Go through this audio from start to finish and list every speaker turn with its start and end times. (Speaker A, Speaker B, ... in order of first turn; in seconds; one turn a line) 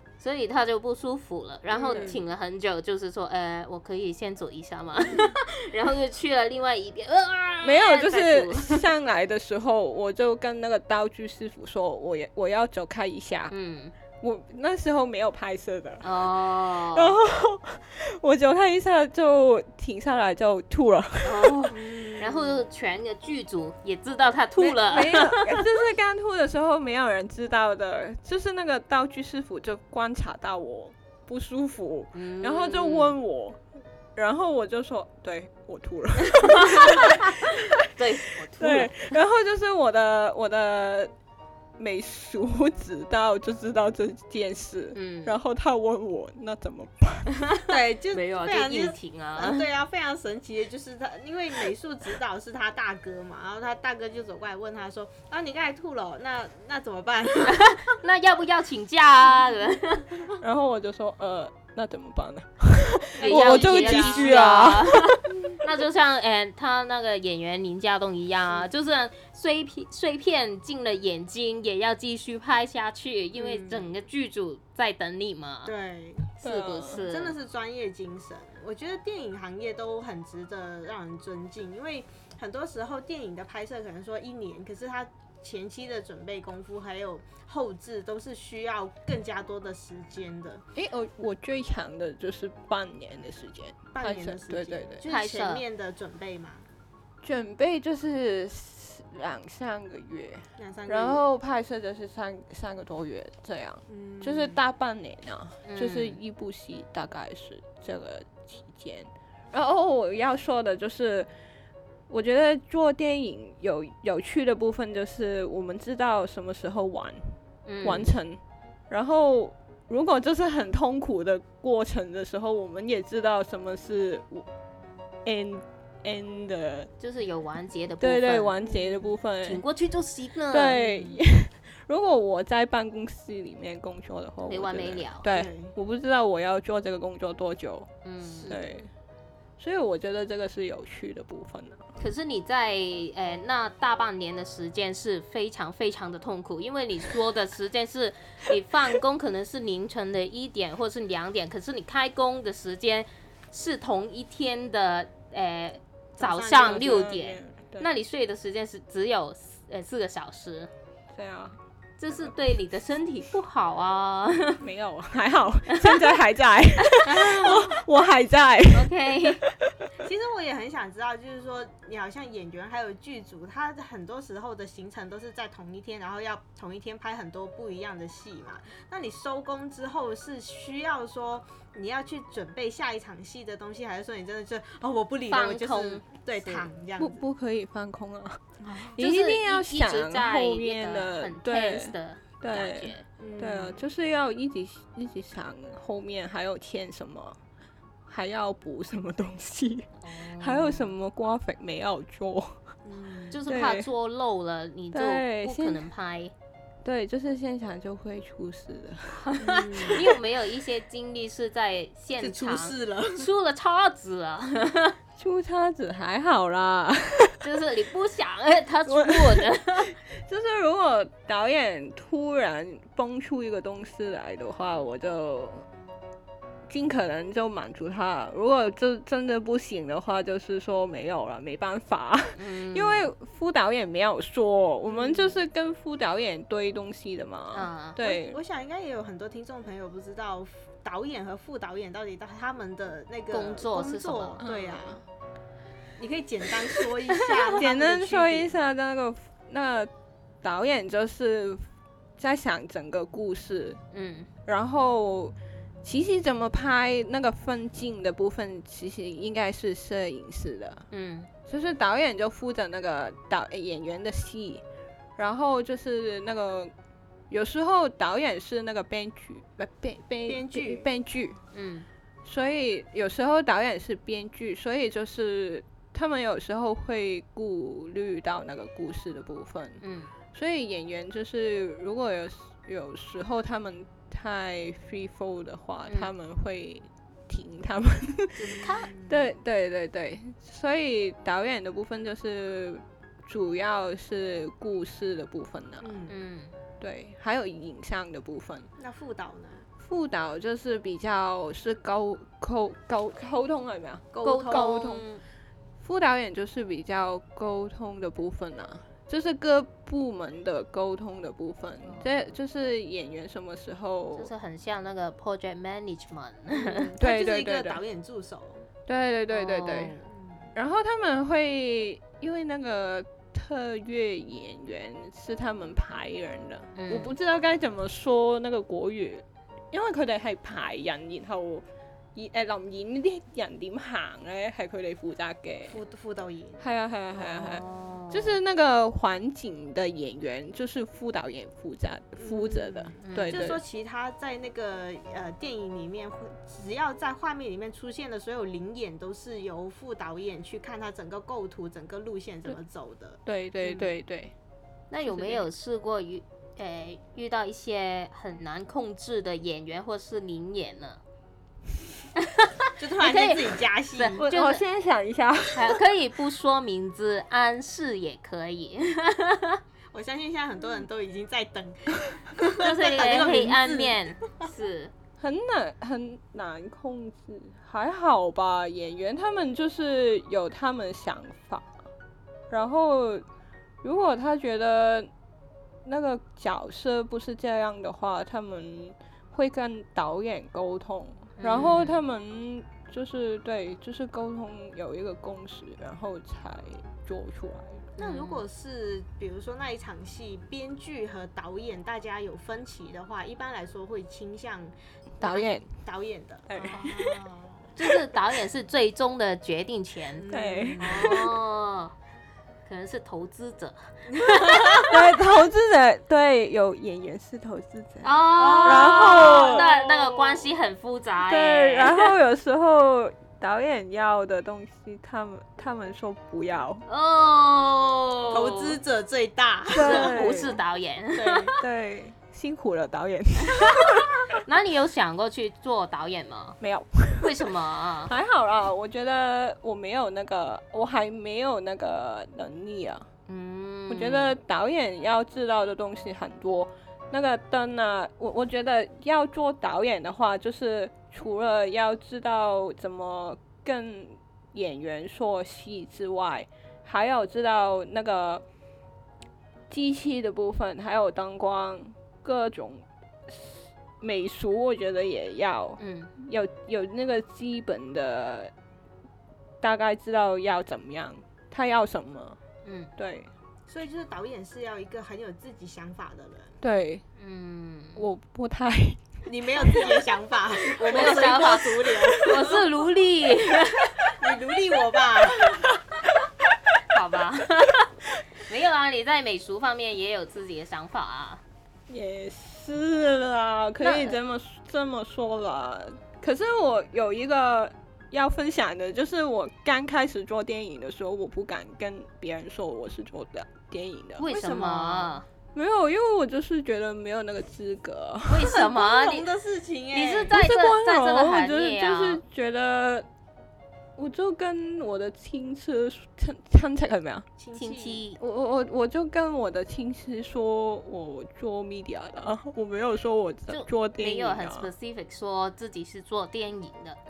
Speaker A: 0.2-8.9
Speaker B: 1.7-2.2
Speaker C: 1.9-2.2
Speaker B: 5.1-5.3
Speaker C: 7.6-13.5
Speaker A: 13.5-13.9
Speaker C: 14.2-16.3
Speaker A: 16.0-17.2
Speaker C: 16.8-21.7
Speaker A: 21.2-25.7
Speaker B: 21.7-22.6
Speaker C: 24.6-33.6
Speaker A: 32.1-33.1
Speaker C: 34.2-37.9
Speaker A: 36.4-39.2
Speaker C: 38.4-41.1
Speaker C: 41.8-47.3
Speaker A: 45.0-45.4
Speaker A: 47.4-49.7
Speaker B: 47.6-57.9
Speaker A: 57.5-60.3
Speaker C: 60.4-65.2
Speaker B: 63.2-64.4
Speaker A: 63.2-75.7
Speaker B: 73.3-73.9
Speaker B: 75.7-76.3
Speaker A: 76.4-77.4
Speaker C: 76.4-77.1
Speaker B: 77.0-90.6
Speaker C: 90.8-95.0
Speaker B: 93.9-96.7
Speaker A: 95.1-95.6
Speaker C: 97.2-111.3
Speaker B: 100.6-101.2
Speaker B: 103.9-104.6
Speaker A: 105.7-106.2
Speaker C: 112.1-124.5
Speaker A: 117.7-118.1
Speaker C: 125.2-126.9
Speaker A: 127.0-128.6
Speaker C: 128.0-129.6
Speaker B: 128.7-129.1
Speaker A: 129.4-130.8
Speaker C: 130.5-137.9
Speaker B: 130.8-131.2
Speaker A: 134.5-135.3
Speaker B: 135.3-135.7
Speaker A: 138.0-138.6
Speaker B: 138.2-138.8
Speaker C: 138.5-138.9
Speaker C: 139.6-141.9
Speaker A: 142.0-160.7
Speaker B: 156.2-157.1
Speaker C: 156.4-157.9
Speaker C: 161.1-161.6
Speaker A: 162.0-164.6
Speaker C: 164.6-169.7
Speaker A: 165.7-166.1
Speaker A: 166.8-167.7
Speaker B: 167.1-167.7
Speaker A: 168.7-169.4
Speaker B: 170.0-187.2
Speaker A: 185.3-186.7
Speaker C: 187.0-188.4
Speaker B: 188.6-189.0
Speaker C: 189.0-197.4
Speaker A: 189.0-193.1
Speaker B: 193.2-193.8
Speaker C: 198.1-202.6
Speaker A: 200.0-200.9
Speaker B: 202.8-203.4
Speaker A: 203.3-206.3
Speaker C: 203.5-203.9
Speaker C: 204.9-205.8
Speaker C: 206.8-210.2
Speaker A: 209.3-215.0
Speaker B: 209.4-210.1
Speaker B: 212.2-213.3
Speaker C: 215.2-217.5
Speaker A: 217.4-220.0
Speaker C: 218.9-225.7
Speaker C: 226.7-238.4
Speaker A: 232.3-233.1
Speaker B: 234.9-235.4
Speaker A: 237.5-238.0
Speaker B: 238.0-245.0
Speaker A: 243.3-244.4
Speaker C: 244.4-245.0
Speaker B: 246.0-248.5
Speaker C: 247.6-249.9
Speaker C: 250.4-251.7
Speaker C: 252.2-253.8
Speaker A: 253.9-254.3
Speaker C: 254.5-260.9
Speaker A: 260.9-261.3
Speaker C: 261.5-264.6
Speaker C: 265.2-266.7
Speaker C: 267.3-271.4
Speaker B: 270.3-270.9
Speaker A: 271.5-271.9
Speaker C: 272.2-279.8
Speaker A: 279.8-280.1
Speaker C: 280.3-296.0
Speaker A: 288.4-288.9
Speaker B: 288.6-289.2
Speaker B: 295.8-296.2
Speaker A: 296.1-296.6
Speaker C: 296.8-298.7
Speaker B: 298.8-299.7
Speaker C: 299.8-305.1
Speaker B: 304.1-304.9
Speaker A: 304.2-305.2
Speaker C: 305.8-314.3
Speaker A: 314.2-316.9
Speaker B: 316.5-318.7
Speaker C: 317.0-317.8
Speaker C: 318.9-320.0
Speaker A: 319.3-320.0
Speaker B: 320.0-320.5
Speaker C: 320.6-335.8
Speaker A: 326.8-327.1
Speaker B: 335.7-336.6
Speaker C: 336.6-343.6
Speaker A: 337.2-338.4
Speaker B: 342.2-353.9
Speaker A: 343.0-343.5
Speaker C: 353.2-354.3
Speaker A: 354.9-361.0
Speaker C: 355.1-355.5
Speaker A: 362.2-364.6
Speaker B: 362.8-364.3
Speaker C: 364.2-365.8
Speaker A: 365.5-369.6
Speaker B: 369.9-374.0
Speaker A: 372.6-374.9
Speaker C: 375.2-381.7
Speaker C: 382.5-383.2
Speaker C: 383.8-385.1
Speaker C: 385.9-397.9
Speaker A: 391.4-392.0
Speaker B: 398.0-407.7
Speaker A: 398.0-398.4
Speaker C: 405.2-405.7
Speaker C: 406.5-407.2
Speaker A: 407.8-410.2
Speaker B: 410.1-411.2
Speaker C: 410.3-411.3
Speaker A: 410.8-411.9
Speaker A: 412.7-415.0
Speaker B: 414.1-414.9
Speaker C: 414.9-419.8
Speaker A: 418.0-422.1
Speaker B: 418.4-419.9
Speaker C: 421.2-426.8
Speaker A: 426.9-428.8
Speaker B: 428.3-430.5
Speaker C: 429.7-430.6
Speaker A: 429.8-431.6
Speaker B: 431.1-431.6
Speaker C: 431.6-434.1
Speaker A: 433.5-436.6
Speaker C: 436.6-437.5
Speaker A: 437.2-438.1
Speaker C: 438.1-443.1
Speaker A: 443.3-444.4
Speaker C: 443.9-458.4
Speaker C: 459.7-468.5
Speaker A: 465.8-466.1
Speaker C: 469.6-472.4
Speaker A: 472.6-472.9
Speaker C: 473.0-473.3
Speaker B: 473.7-476.6
Speaker C: 476.6-477.0
Speaker A: 477.2-478.1
Speaker C: 478.0-479.0
Speaker B: 479.2-482.7
Speaker A: 480.8-484.1
Speaker B: 484.2-485.7
Speaker A: 486.9-491.4
Speaker C: 491.9-504.6
Speaker A: 493.8-494.2
Speaker A: 504.2-505.3
Speaker B: 504.3-505.1
Speaker C: 505.5-508.6
Speaker A: 508.3-509.3
Speaker B: 508.4-510.3
Speaker A: 509.9-512.2
Speaker C: 510.3-513.1
Speaker C: 514.0-517.3
Speaker B: 517.4-518.0
Speaker A: 517.6-518.2
Speaker C: 518.2-524.7
Speaker A: 523.5-527.0